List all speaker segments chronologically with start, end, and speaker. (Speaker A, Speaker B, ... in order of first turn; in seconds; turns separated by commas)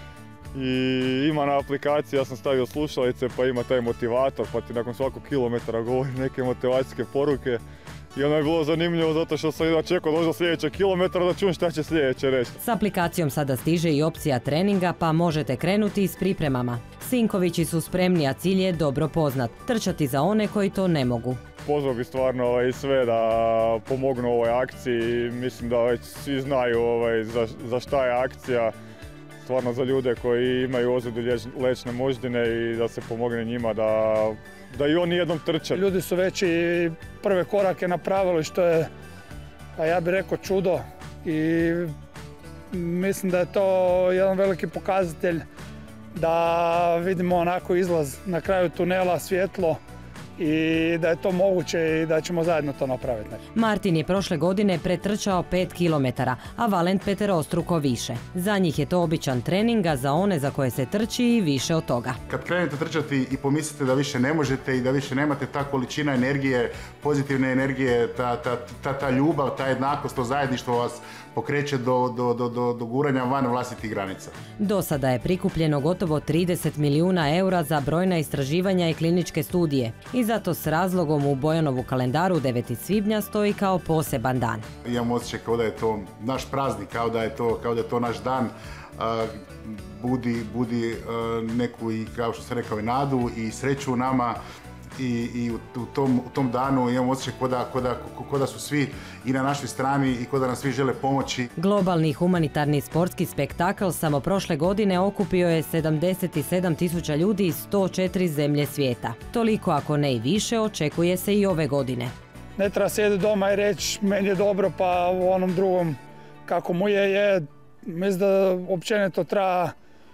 Speaker A: 0.5-7.6, Speaker A: 8.2-12.6, Speaker B: 12.6-21.4, Speaker A: 21.6-28.7, Speaker A: 29.4-35.8, Speaker C: 35.8-38.9, Speaker C: 39.8-41.9, Speaker C: 42.7-45.5, Speaker C: 46.1-49.8, Speaker C: 50.4-53.4, Speaker B: 53.5-62.2, Speaker D: 62.3-74.3, Speaker B: 74.6-84.7, Speaker D: 84.8-94.4, Speaker D: 95.0-101.5, Speaker B: 101.6-112.1, Speaker C: 112.6-119.7